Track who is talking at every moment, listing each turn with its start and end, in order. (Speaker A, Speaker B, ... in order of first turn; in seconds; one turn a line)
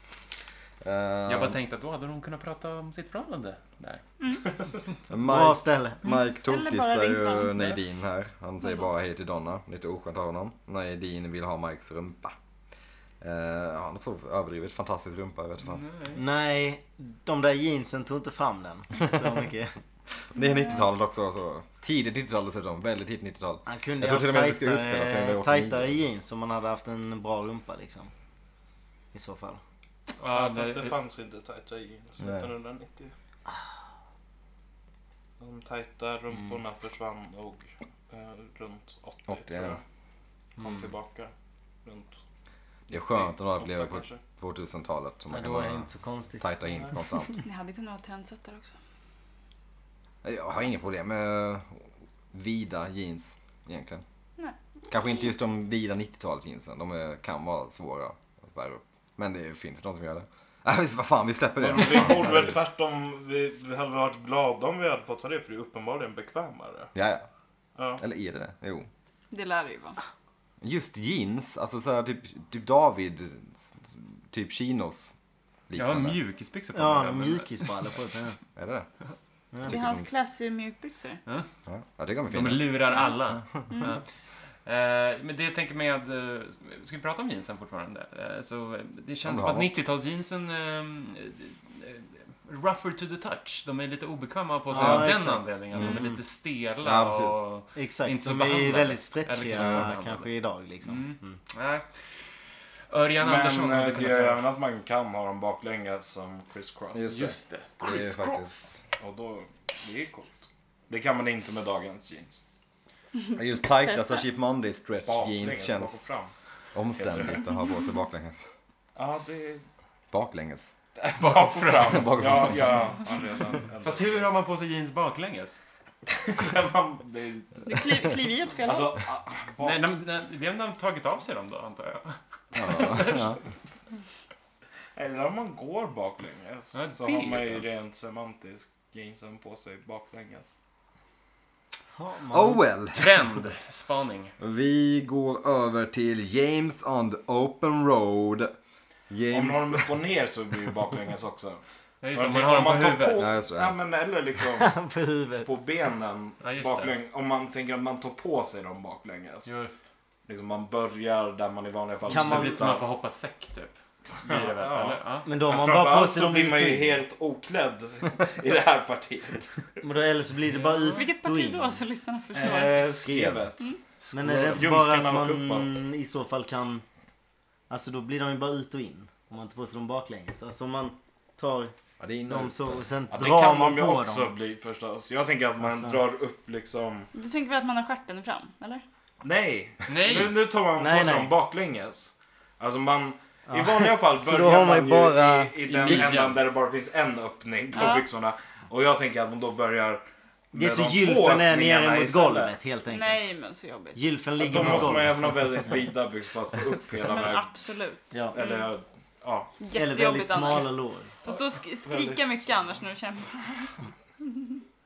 Speaker A: 0.8-1.6
Speaker B: 1.3-4.0
Speaker C: 4.2-4.5
Speaker A: 5.1-12.3
Speaker D: 5.2-6.0
Speaker C: 6.1-7.8
Speaker A: 13.2-15.8
Speaker B: 15.6-16.2
Speaker D: 16.1-19.7
Speaker A: 20.2-26.0
Speaker D: 23.6-28.1
Speaker D: 29.1-29.6
Speaker B: 30.2-31.0
Speaker E: 30.3-33.1
Speaker A: 32.2-32.5
Speaker E: 35.4-39.8
Speaker A: 39.3-39.8
Speaker B: 40.6-40.9
Speaker E: 40.6-41.3
Speaker E: 41.8-42.2
Speaker A: 42.9-45.9
Speaker E: 42.9-44.2
Speaker D: 45.3-47.4
Speaker A: 46.4-47.4
Speaker C: 47.4-48.7
Speaker A: 50.2-54.0
Speaker A: 54.9-62.5
Speaker E: 61.6-66.9
Speaker A: 66.9-67.2
Speaker E: 67.8-68.0
Speaker A: 68.0-68.9
Speaker C: 69.3-70.0
Speaker A: 70.6-75.1
Speaker A: 75.7-76.2
Speaker B: 75.7-77.8
Speaker D: 76.7-78.4
Speaker A: 78.5-78.9
Speaker D: 79.5-79.8
Speaker A: 79.6-80.0
Speaker C: 79.7-81.2
Speaker A: 81.7-82.7
Speaker B: 82.3-84.0
Speaker C: 82.9-83.1
Speaker C: 83.7-84.0
Speaker B: 84.6-100.3
Speaker A: 89.2-89.7
Speaker D: 94.7-96.1
Speaker A: 94.7-95.1
Speaker A: 95.7-96.1
Speaker A: 96.8-97.4
Speaker D: 97.8-101.4
Speaker A: 99.5-99.9
Speaker B: 100.8-102.0
Speaker B: 102.9-104.4
Speaker E: 103.2-107.1
Speaker A: 106.9-108.7
Speaker B: 107.1-108.7
Speaker E: 109.0-112.4
Speaker A: 113.3-116.0
Speaker E: 115.0-116.3
Speaker A: 116.7-118.5
Speaker E: 117.0-117.4
Speaker E: 119.0-119.6
Speaker A: 120.1-120.7
Speaker E: 121.0-124.2
Speaker B: 121.1-122.5
Speaker A: 121.9-122.7
Speaker B: 123.8-125.6
Speaker E: 126.2-127.8
Speaker C: 127.6-128.9
Speaker E: 128.6-129.8
Speaker B: 129.6-133.3
Speaker A: 132.5-133.4
Speaker E: 134.9-140.5
Speaker B: 136.7-137.7
Speaker D: 141.9-142.6
Speaker A: 142.3-143.1
Speaker B: 142.9-144.3
Speaker A: 144.4-148.5
Speaker A: 149.1-150.0
Speaker E: 149.3-151.6
Speaker B: 152.0-153.2
Speaker E: 152.1-154.7
Speaker A: 153.2-153.8
Speaker D: 154.6-155.5
Speaker E: 155.4-159.5
Speaker B: 156.4-156.9
Speaker B: 159.4-159.7
Speaker E: 160.3-162.8
Speaker D: 162.1-162.7
Speaker B: 162.1-165.3
Speaker E: 164.2-169.7
Speaker D: 165.2-167.1
Speaker D: 169.8-171.8
Speaker B: 170.5-171.1
Speaker C: 170.9-172.9
Speaker E: 172.3-175.8
Speaker A: 173.0-173.5
Speaker B: 174.0-174.6
Speaker D: 174.1-176.8
Speaker D: 177.7-181.7
Speaker A: 182.0-182.7
Speaker D: 182.3-184.3
Speaker E: 183.1-187.1
Speaker D: 185.6-186.0
Speaker C: 187.1-188.8
Speaker E: 189.2-202.5
Speaker B: 189.8-190.4
Speaker D: 190.8-191.3
Speaker D: 193.5-195.5
Speaker B: 195.6-196.4
Speaker C: 197.7-198.1
Speaker D: 200.5-203.3
Speaker C: 202.9-204.0
Speaker D: 203.9-205.7
Speaker E: 204.4-207.5
Speaker C: 207.0-208.7
Speaker E: 208.3-209.6
Speaker C: 209.6-214.6
Speaker D: 209.7-211.1
Speaker E: 211.2-212.7